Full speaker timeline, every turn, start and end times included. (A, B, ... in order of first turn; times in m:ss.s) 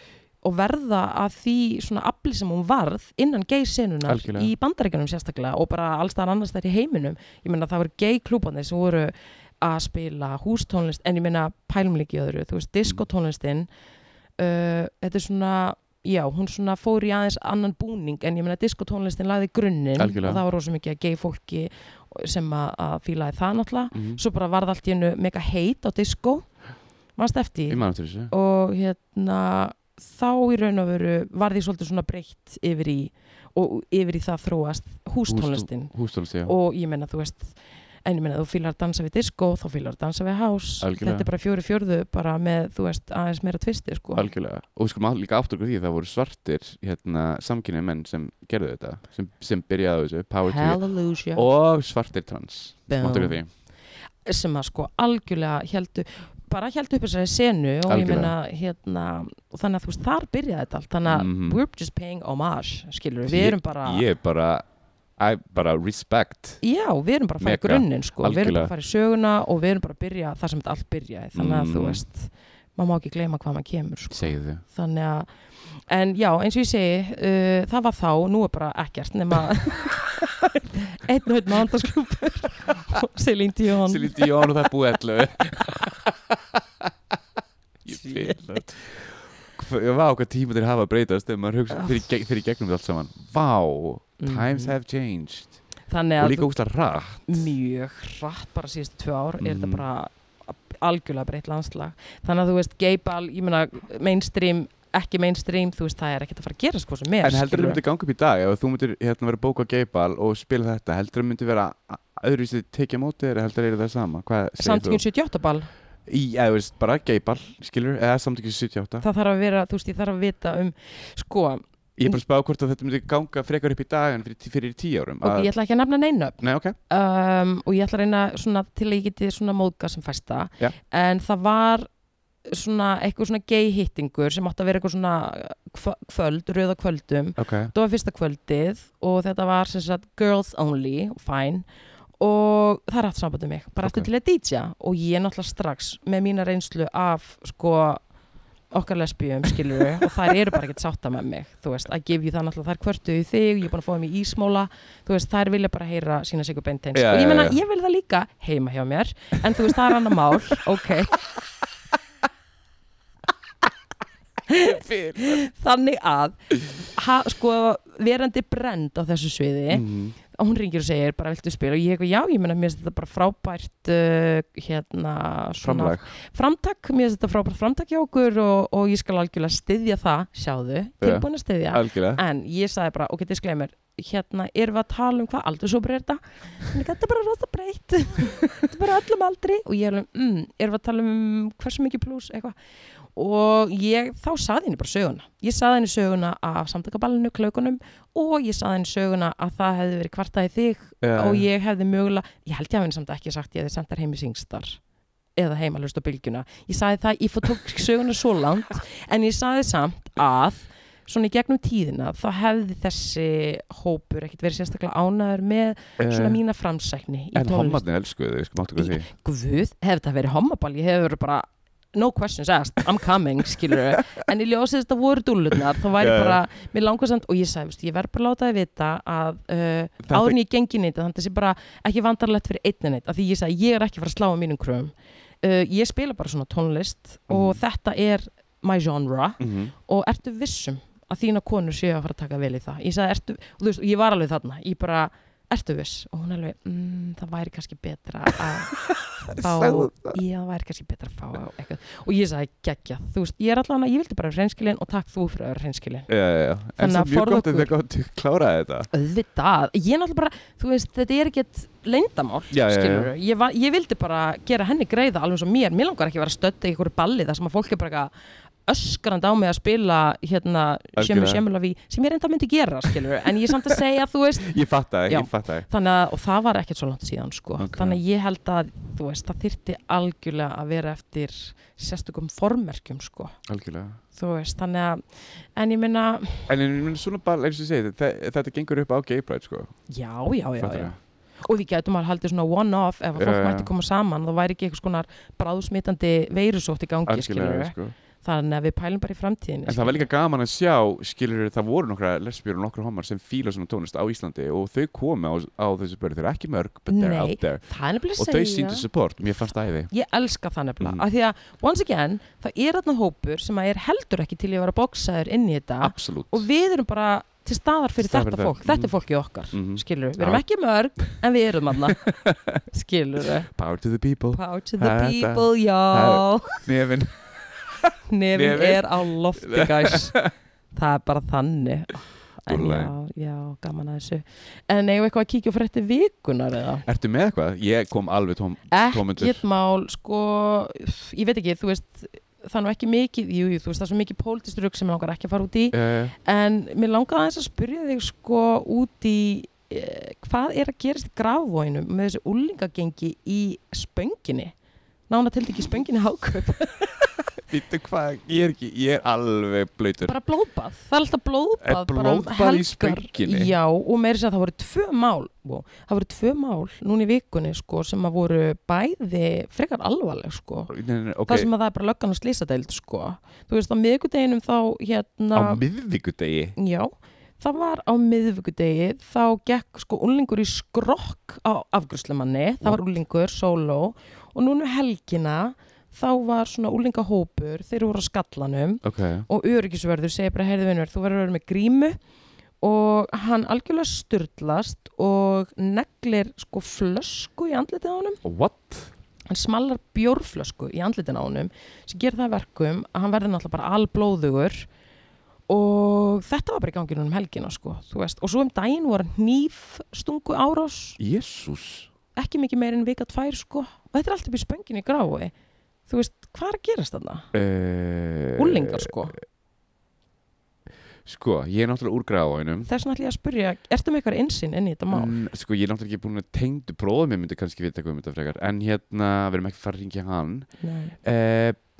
0:00.4-0:13.7 A
0:04.1-0:04.5 B
0:14.4-0:26.5 A
0:20.0-0:20.4 B
0:23.9-0:24.2 B
0:27.2-0:35.9 A
0:27.7-0:28.3 B
0:35.3-0:36.5 B
0:36.4-0:44.3 A
0:40.8-0:41.3 B
0:44.2-0:50.8 B
0:50.5-0:51.5 A
0:51.4-0:53.5 B
0:52.9-0:53.4 A
0:54.2-1:04.0 A
0:57.9-0:58.3 B
1:01.1-1:01.6 B
1:03.3-1:04.6 B
1:05.2-1:06.6 B
1:06.6-1:15.3 A
1:07.4-1:08.7 B
1:11.4-1:12.0 B
1:14.1-1:14.6 B
1:15.9-1:24.4 A
1:23.8-1:26.9 B
1:27.8-1:35.6 B
1:27.9-1:28.6 A
1:31.8-1:32.0 A
1:34.2-1:34.7 A
1:35.9-1:36.5 A
1:36.2-1:37.5 B
1:37.3-1:47.8 A
1:39.4-1:39.8 B
1:47.2-1:55.0 B
1:54.6-1:55.7 A
1:56.1-1:59.0 B
1:59.0-2:02.2 A
2:02.0-2:05.5 B
2:05.2-2:11.9 A
2:06.4-2:06.8 B
2:12.5-2:21.6 A
2:17.4-2:17.7 B
2:22.2-2:28.0 A
2:23.8-2:24.1 B
2:28.7-2:41.2 A
2:36.9-2:37.6 B
2:44.5-3:12.6 A
2:44.6-2:45.4 B
2:49.7-2:50.2 B
2:55.6-2:56.1 B
3:01.0-3:02.2 B
3:13.2-3:24.8 A
3:21.0-3:21.4 B
3:25.4-3:37.8 A
3:36.0-3:36.4 B
3:37.4-3:39.1 B
3:38.8-4:16.1 A
3:46.0-3:46.4 B
3:50.0-3:50.4 B
3:57.3-3:57.6 B
3:59.4-3:59.7 B
4:08.5-4:10.2 B
4:16.1-4:18.9 B
4:16.8-4:17.7 A
4:18.9-4:28.1 A
4:22.5-4:23.1 B
4:28.7-4:43.4 A
4:31.0-4:31.4 B
4:34.4-4:35.7 B
4:37.6-4:38.0 B
4:43.5-4:44.0 B
4:44.1-4:45.0 A
4:45.6-4:46.5 A
4:46.5-4:49.7 B
4:49.9-5:00.1 A
4:50.6-4:51.0 B
4:53.2-4:53.7 B
4:57.1-4:57.9 B
4:59.7-5:07.6 B
5:06.9-5:08.9 A
5:08.2-5:09.9 B
5:09.9-5:22.0 A
5:15.8-5:16.4 B
5:18.0-5:18.9 B
5:19.5-5:20.4 B
5:21.8-5:22.6 B
5:22.7-5:23.5 A
5:23.5-5:30.3 B
5:24.3-5:26.6 A
5:28.1-5:30.2 A
5:30.7-5:36.9 A
5:32.5-5:32.9 B
5:36.8-5:39.4 B
5:38.7-5:54.5 A
5:45.7-5:46.1 B
5:55.1-5:57.2 A
5:57.5-6:00.2 B
6:00.0-6:10.7 A
6:01.6-6:03.5 B
6:10.7-6:11.5 B
6:11.3-6:15.6 A
6:15.3-6:16.6 B
6:16.6-6:32.0 A
6:28.8-6:29.3 B
6:32.6-6:38.2 A
6:38.2-6:38.9 B
6:39.3-6:44.7 A
6:45.5-6:51.0 A
6:51.0-6:51.9 B
6:52.2-6:55.3 A
6:55.9-6:57.3 A
6:57.3-6:59.0 B
6:58.4-6:59.2 A
7:01.0-7:02.7 B
7:02.6-7:05.1 A
7:04.9-7:10.5 B
7:10.6-7:11.0 A
7:11.0-7:11.6 B